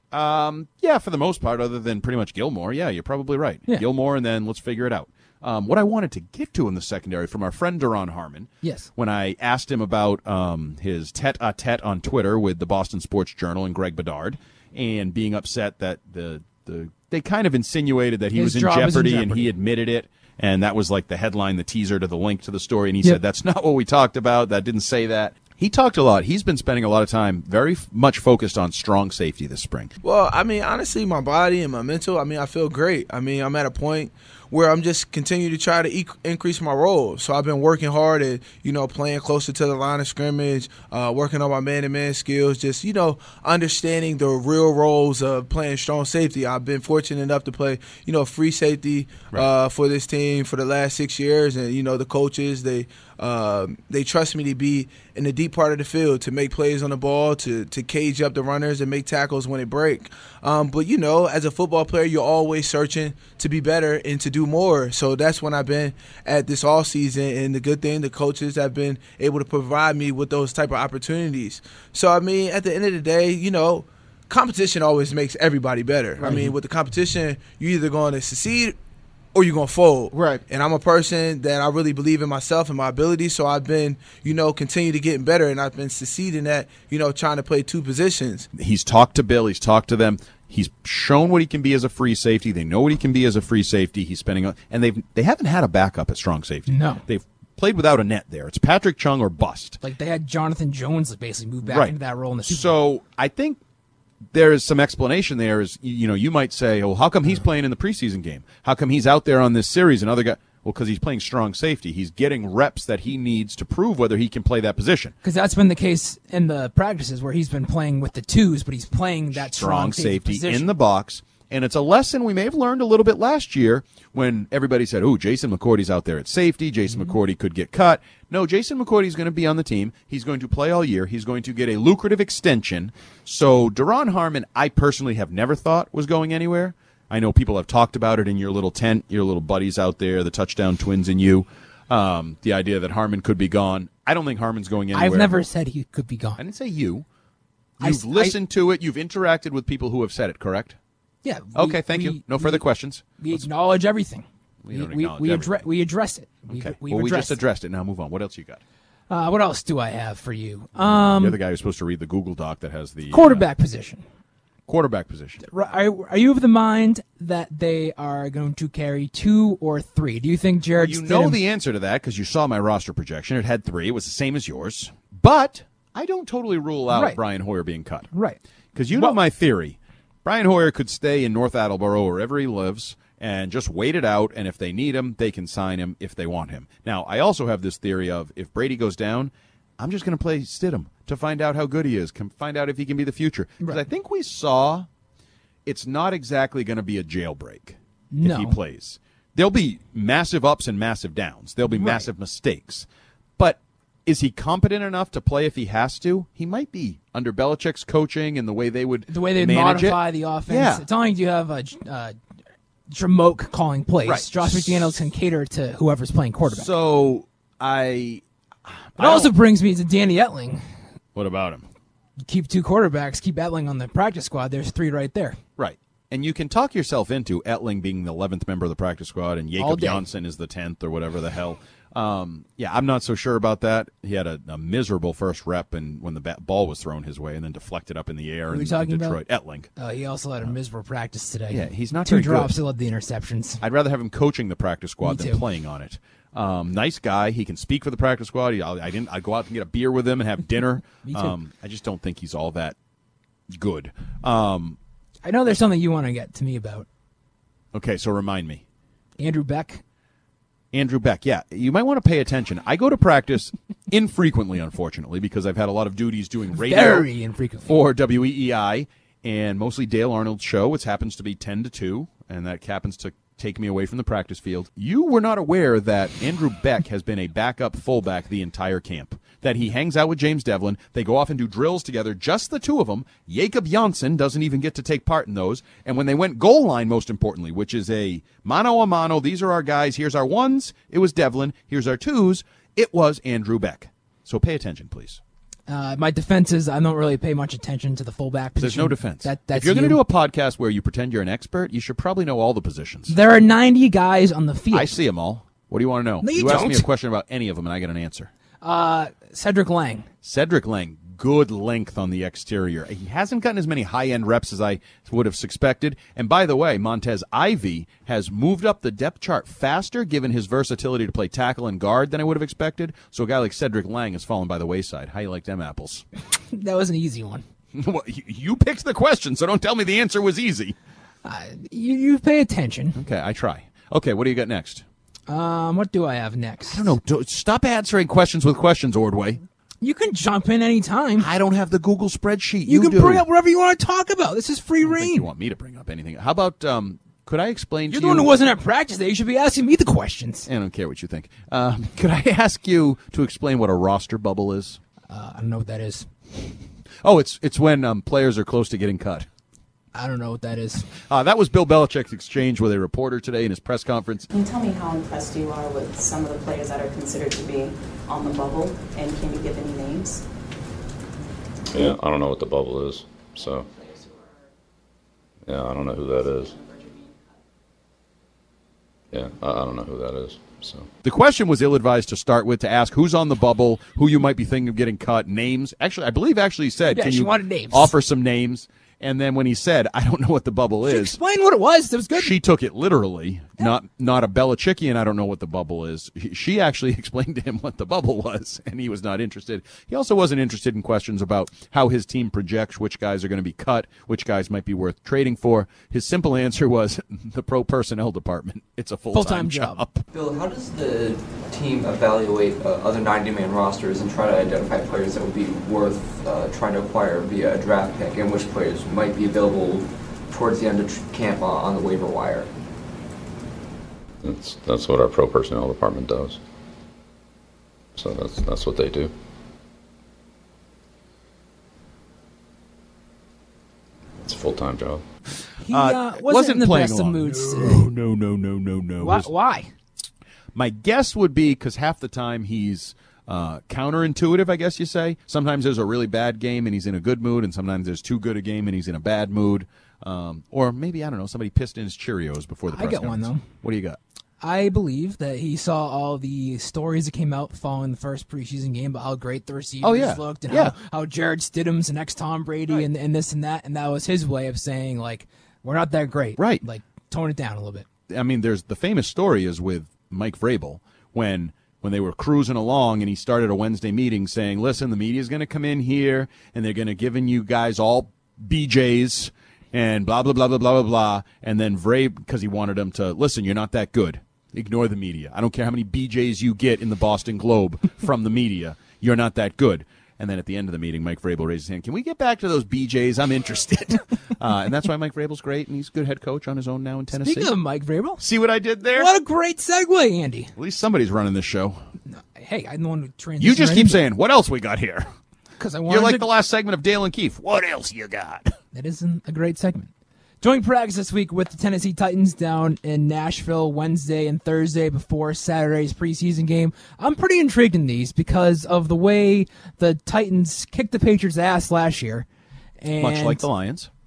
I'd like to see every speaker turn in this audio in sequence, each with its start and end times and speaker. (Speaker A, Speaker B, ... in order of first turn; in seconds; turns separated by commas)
Speaker A: 0.1-29.9, Speaker B: 8.6-8.9, Speaker B: 18.3-19.5, Speaker C: 30.0-78.8, Speaker C: 79.3-88.5, Speaker A: 88.5-99.8, Speaker B: 96.7-97.0, Speaker B: 99.8-102.7, Speaker A: 101.6-103.6, Speaker A: 104.3-115.1, Speaker B: 115.2-120.7, Speaker A: 119.3-145.3, Speaker B: 144.9-146.4, Speaker A: 146.4-147.1, Speaker A: 147.8-150.8, Speaker B: 147.8-148.3, Speaker B: 151.2-152.6, Speaker A: 151.5-153.5, Speaker B: 153.2-157.4, Speaker A: 154.6-155.7, Speaker A: 156.5-158.6, Speaker B: 159.1-161.4, Speaker A: 160.8-163.4, Speaker B: 163.1-164.0, Speaker A: 164.7-165.4, Speaker B: 165.4-171.4, Speaker A: 170.8-178.1, Speaker B: 176.9-177.2, Speaker B: 178.1-178.4, Speaker A: 178.7-194.9, Speaker A: 195.6-210.8, Speaker B: 198.1-198.6, Speaker B: 201.7-202.1, Speaker B: 209.1-212.1, Speaker B: 212.9-216.7, Speaker A: 214.0-215.0, Speaker A: 216.4-219.3, Speaker B: 219.0-220.6, Speaker A: 221.1-221.7, Speaker B: 222.2-225.4, Speaker A: 225.6-239.7, Speaker B: 229.6-230.0, Speaker B: 238.5-239.2, Speaker B: 239.8-243.6, Speaker A: 241.5-242.5, Speaker A: 243.6-252.8, Speaker B: 245.0-245.4, Speaker B: 251.0-251.3, Speaker A: 253.5-254.8, Speaker B: 255.2-256.9, Speaker A: 257.7-258.6, Speaker B: 259.2-259.8, Speaker A: 260.7-267.1, Speaker B: 266.5-267.7, Speaker A: 267.6-295.2, Speaker B: 295.7-300.0, Speaker A: 298.6-303.1, Speaker B: 303.1-304.9, Speaker A: 304.7-308.3, Speaker B: 306.2-306.9, Speaker B: 308.6-310.1, Speaker A: 310.2-326.0, Speaker B: 326.5-327.4, Speaker A: 327.7-330.8, Speaker B: 331.2-333.0, Speaker A: 332.9-334.8, Speaker B: 335.3-336.9, Speaker A: 336.7-339.4, Speaker B: 339.8-341.3, Speaker A: 341.2-343.2, Speaker B: 342.7-345.2, Speaker A: 344.8-348.3, Speaker B: 347.9-350.5, Speaker A: 350.5-354.8, Speaker B: 355.1-356.1, Speaker A: 357.0-359.3, Speaker B: 359.9-360.9, Speaker A: 361.1-364.3, Speaker D: 364.3-370.2, Speaker E: 371.7-373.7, Speaker E: 375.5-376.6, Speaker E: 379.1-380.9, Speaker A: 381.0-391.2, Speaker B: 386.9-387.9, Speaker B: 390.8-392.3, Speaker A: 392.1-410.0, Speaker B: 409.1-409.8, Speaker F: 410.1-422.5, Speaker E: 424.2-426.4, Speaker E: 428.0-429.1, Speaker E: 434.2-435.0, Speaker B: 435.6-437.9, Speaker A: 435.7-439.3, Speaker B: 439.0-439.7, Speaker A: 440.5-454.0, Speaker B: 452.7-453.4, Speaker B: 454.4-467.9, Speaker A: 459.8-460.7, Speaker A: 466.4-466.6, Speaker A: 468.1-497.5, Speaker B: 497.1-498.2, Speaker A: 498.2-499.1, Speaker B: 498.9-500.5, Speaker A: 500.6-501.8, Speaker B: 502.1-504.0, Speaker A: 503.4-505.1, Speaker B: 505.6-506.3, Speaker A: 505.9-508.5, Speaker B: 508.7-509.9, Speaker B: 510.4-522.2, Speaker B: 522.8-523.4, Speaker A: 523.0-523.9